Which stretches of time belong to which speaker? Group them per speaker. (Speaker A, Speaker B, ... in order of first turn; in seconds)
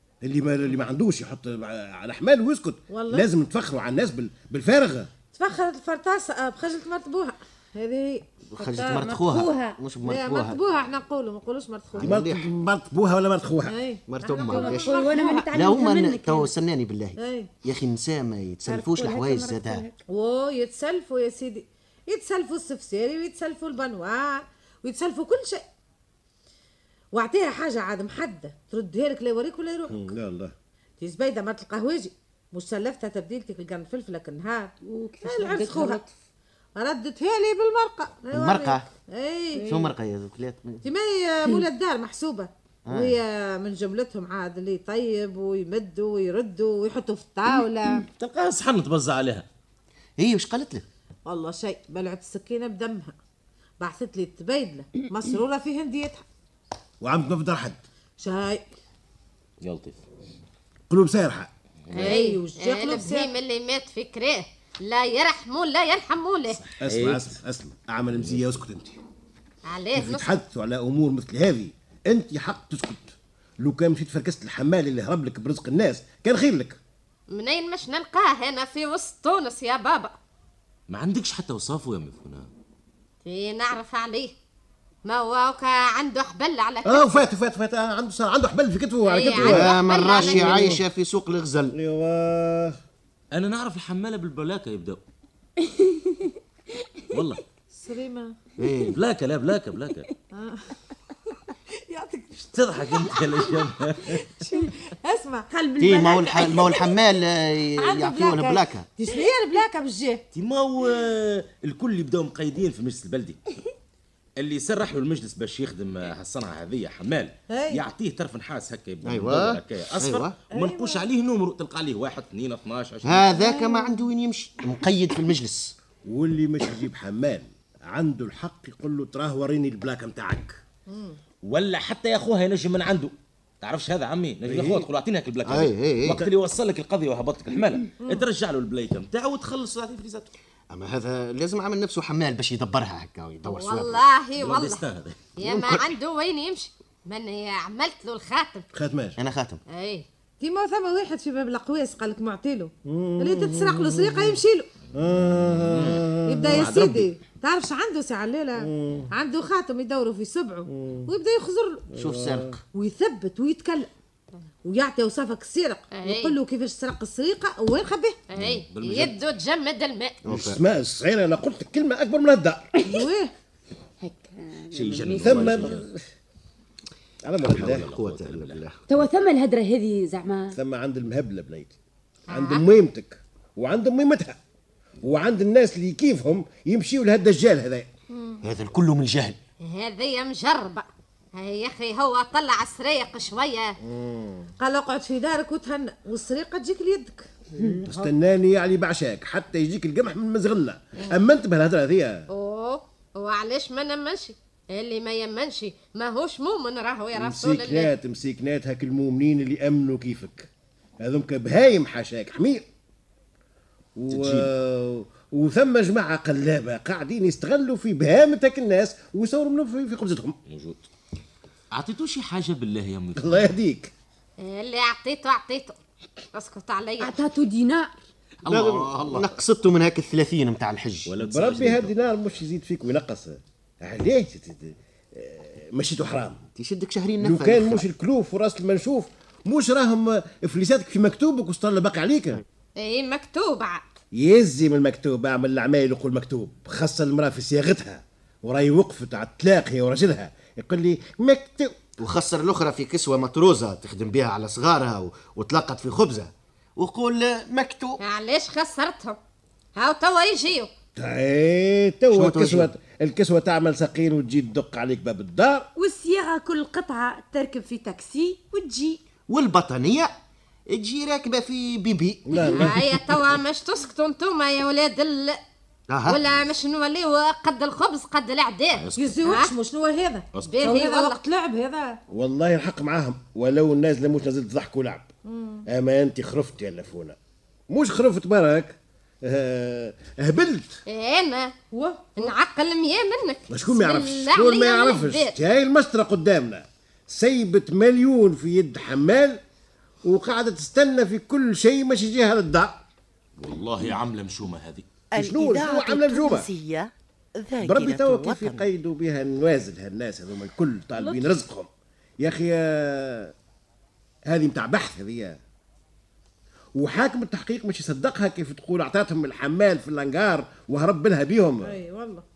Speaker A: 0.2-5.1, 12.0-13.8, 29.9-30.5, 57.0-57.8, 60.9-61.5, 66.8-69.0, 69.9-76.8, 86.8-90.8, 91.7-92.8, 126.0-130.6, 134.5-134.9, 148.7-149.2, 152.8-154.4, 154.9-156.9, 158.6-159.1, 160.7-161.1, 161.9-162.6, 170.3-172.7, 175.2-176.0, 177.2-177.9, 180.5-181.8, 182.3-184.4, 185.0-187.9, 193.9-194.5, 197.8-202.3, 207.1-212.7, 214.0-220.4, 223.2-223.9, 231.1-236.4, 237.2-242.4, 244.1-251.8, 261.0-265.7, 272.3-272.8, 282.1-285.1, 285.7-287.2, 287.7-290.8, 293.5-299.4, 300.0-302.8, 305.1-306.5, 307.6-311.7, 312.2-313.3, 314.3-315.4, 316.8-321.8
Speaker B: 2.9-3.3, 5.3-8.3, 10.0-12.2, 13.7-15.5, 17.2-17.5, 20.1-25.6, 27.1-30.1, 31.0-36.0, 36.8-39.7, 40.8-48.1, 51.3-53.2, 53.8-56.2, 58.2-58.6, 61.9-63.3, 97.7-98.4, 100.3-100.8, 101.7-105.5, 107.8-110.2, 117.5-117.8, 120.5-121.0, 123.4-123.7, 130.9-131.2, 150.4-154.7, 156.3-161.9, 162.7-163.9, 164.6-168.2, 172.8-173.3, 188.1-188.4, 194.6-197.8, 279.0-282.0, 285.3-285.6, 291.7-292.3, 321.6-322.2
Speaker C: 8.5-10.6, 12.0-12.5, 14.1-19.9, 38.3-38.9, 39.7-40.8, 42.9-43.2, 50.2-50.9, 89.4-91.8, 98.6-99.0, 105.8-108.9, 119.0-120.4, 123.0-125.8, 135.5-136.2, 140.7-144.0, 145.4-145.8, 149.2-149.6, 162.0-162.6, 170.2-170.6, 177.4-178.8, 188.4-189.4, 228.5-231.1, 236.6-237.8, 252.0-258.0, 262.1-262.7, 269.3-270.1, 270.7-272.8, 275.9-276.2
Speaker D: 8.6-9.8, 14.4-16.5, 18.7-20.0, 34.8-36.1, 39.6-39.9, 95.6-96.3, 105.5-107.0, 174.0-175.8, 178.9-180.6, 227.0-227.9, 265.8-269.0
Speaker E: 48.2-49.5, 59.6-60.0, 61.9-62.2, 66.6-67.3, 68.2-68.6, 80.9-82.5, 93.3-95.0, 97.1-97.4, 98.9-100.1, 102.4-104.2, 110.3-113.4, 114.4-123.3, 131.4-140.3, 144.4-145.3, 155.5-157.1, 168.3-169.2, 174.7-175.9, 177.4-178.6, 214.1-214.5, 220.5-220.8, 221.7-223.6, 228.4-229.3, 231.1-231.9, 278.7-279.3, 280.4-280.8, 303.4-304.9
Speaker F: 61.9-66.6, 69.7-70.4, 77.3-80.2, 83.2-84.3, 85.0-87.2, 89.0-90.8, 143.4-144.8, 145.4-148.7, 149.7-150.1, 165.9-166.4, 168.3-170.2, 182.3-182.6, 189.6-193.8, 202.3-207.9, 224.4-225.8, 226.3-227.2, 242.8-243.8, 258.0-259.2, 259.8-260.7, 272.5-275.4, 276.1-279.5, 280.4-281.2, 290.9-291.5, 292.2-295.4
Speaker G: 305.1-308.7